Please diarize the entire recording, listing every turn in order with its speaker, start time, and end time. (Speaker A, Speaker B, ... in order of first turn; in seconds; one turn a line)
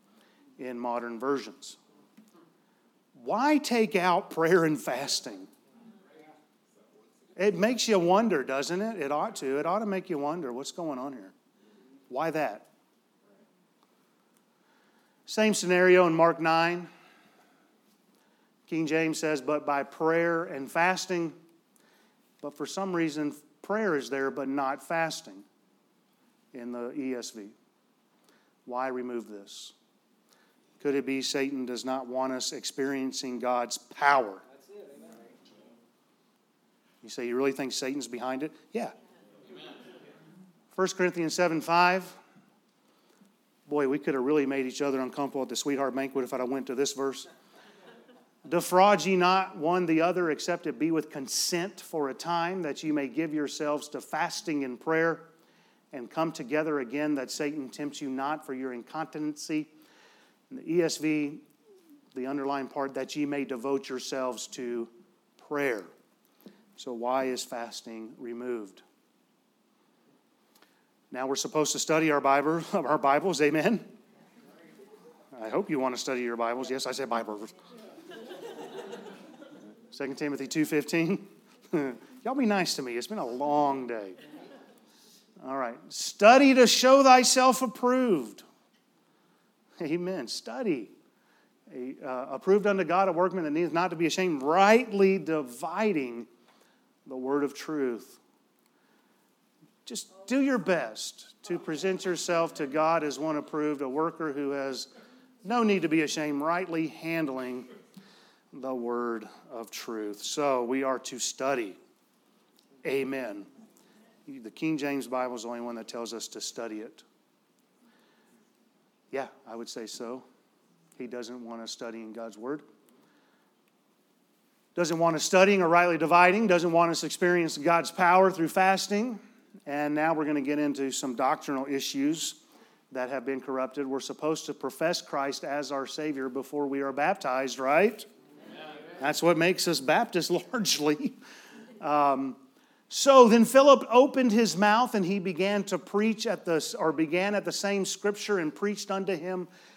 Speaker A: 0.6-1.8
Speaker A: 3.1-5.5
Speaker A: 7.4-11.3
Speaker A: 12.1-12.7
Speaker A: 15.3-16.9
Speaker A: 18.7-21.4
Speaker A: 22.4-25.5
Speaker A: 26.5-27.6
Speaker A: 28.7-29.7
Speaker A: 30.8-34.4
Speaker A: 37.0-39.0
Speaker A: 40.7-42.2
Speaker A: 43.7-47.3
Speaker A: 48.5-55.3
Speaker A: 55.9-59.7
Speaker A: 60.5-61.4
Speaker A: 62.1-65.9
Speaker A: 66.8-68.8
Speaker A: 71.1-73.9
Speaker A: 75.3-77.5
Speaker A: 79.9-84.2
Speaker A: 85.4-88.5
Speaker A: 89.8-90.9
Speaker A: 91.7-96.3
Speaker A: 97.1-98.2
Speaker A: 99.9-104.9
Speaker A: 105.4-107.7
Speaker A: 108.5-111.8
Speaker A: 112.8-113.5
Speaker A: 114.3-117.0
Speaker A: 119.1-120.3
Speaker A: 121.0-122.6
Speaker A: 124.8-132.4
Speaker A: 132.9-138.1
Speaker A: 139.0-141.2
Speaker A: 141.8-149.5